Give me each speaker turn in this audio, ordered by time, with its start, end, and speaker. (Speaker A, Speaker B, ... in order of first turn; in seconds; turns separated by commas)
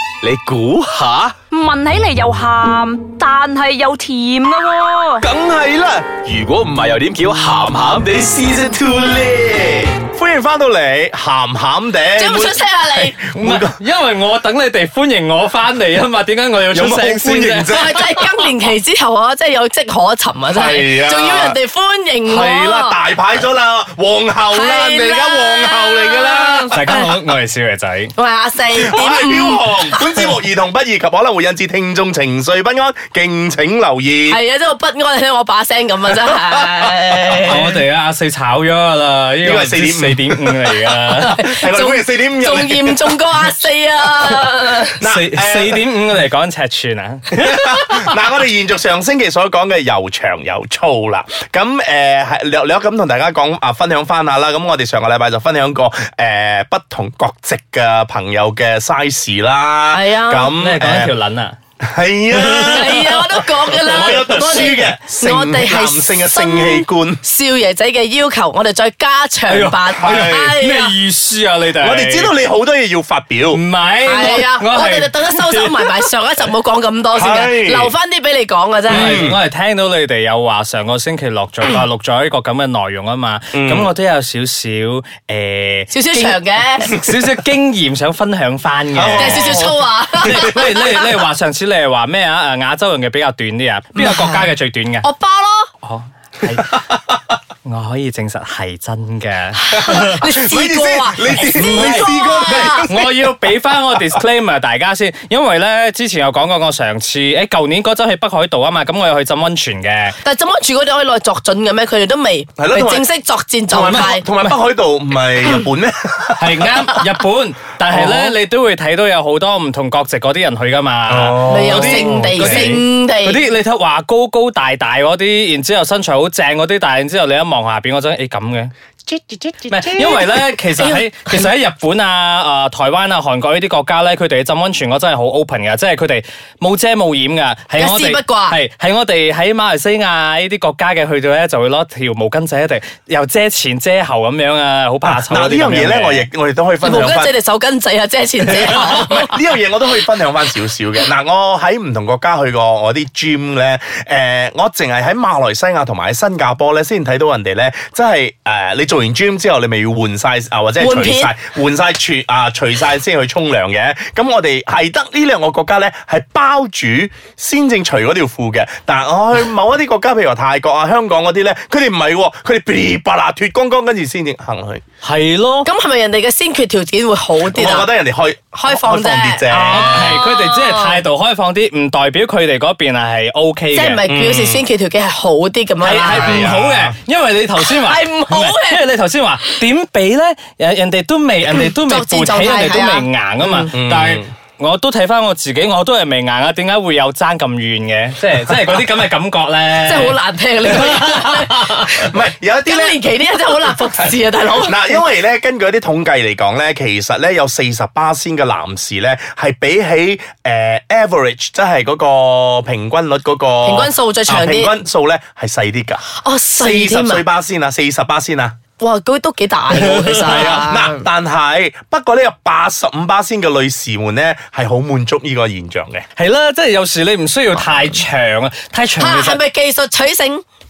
Speaker A: 0.2-1.4, Speaker B: 1.8-4.5, Speaker A: 4.8-9.9, Speaker C: 5.2-6.3, Speaker C: 8.2-13.8, Speaker D: 12.2-13.1, Speaker E: 13.3-18.5, Speaker C: 16.7-18.0, Speaker D: 17.7-23.0, Speaker C: 20.5-21.6, Speaker C: 22.2-26.8, Speaker D: 24.5-27.1, Speaker E: 26.7-28.1, Speaker D: 28.1-30.2, Speaker C: 28.7-34.4, Speaker D: 34.3-37.8, Speaker C: 36.3-37.7, Speaker E: 37.4-41.4, Speaker C: 39.4-43.2, Speaker D: 41.1-45.0, Speaker E: 44.9-48.1, Speaker C: 45.0-45.9, Speaker C: 47.3-61.1, Speaker D: 59.9-60.5, Speaker E: 60.5-61.5, Speaker C: 61.8-67.2, Speaker E: 62.3-64.8, Speaker D: 62.6-70.9, Speaker E: 69.5-72.3, Speaker C: 69.9-70.5, Speaker C: 71.8-73.6, Speaker E: 73.5-76.1, Speaker D: 74.0-79.2, Speaker C: 77.1-77.9, Speaker E: 78.9-95.1, Speaker C: 78.9-79.4, Speaker C: 83.5-83.9, Speaker D: 85.9-86.9, Speaker C: 88.9-89.7, Speaker D: 89.2-91.1, Speaker D: 93.9-94.5, Speaker D: 95.0-95.7, Speaker E: 95.8-96.8, Speaker C: 96.5-97.0, Speaker E: 97.6-100.2, Speaker D: 99.6-102.9, Speaker C: 99.7-103.3, Speaker E: 101.5-110.2, Speaker D: 110.2-114.2, Speaker C: 112.6-113.0, Speaker C: 113.7-116.7, Speaker E: 113.8-114.6, Speaker E: 116.4-128.7, Speaker C: 117.9-118.3, Speaker C: 121.1-122.8, Speaker D: 121.5-123.4, Speaker C: 129.1-130.3, Speaker E: 129.7-146.2, Speaker D: 130.0-131.5, Speaker D: 137.8-138.6, Speaker C: 145.0-147.3, Speaker D: 146.8-149.4, Speaker C: 148.4-174.8, Speaker D: 160.8-161.3, Speaker E: 175.0-175.7, Speaker D: 175.6-177.9, Speaker C: 177.4-180.2, Speaker D: 178.5-181.0, Speaker E: 179.5-184.0, Speaker D: 183.7-186.5, Speaker C: 184.1-184.6, Speaker E: 185.8-200.2, Speaker C: 186.0-186.9, Speaker D: 187.6-188.8, Speaker D: 191.6-193.7, Speaker C: 193.7-194.3, Speaker D: 199.8-205.0, Speaker E: 200.7-201.9, Speaker C: 202.0-203.0, Speaker C: 203.6-216.0, Speaker D: 213.6-214.7, Speaker D: 216.1-217.2, Speaker C: 216.6-218.5, Speaker D: 218.8-221.1, Speaker E: 219.7-220.5, Speaker C: 219.9-226.1, Speaker E: 226.2-229.4, Speaker D: 229.0-230.4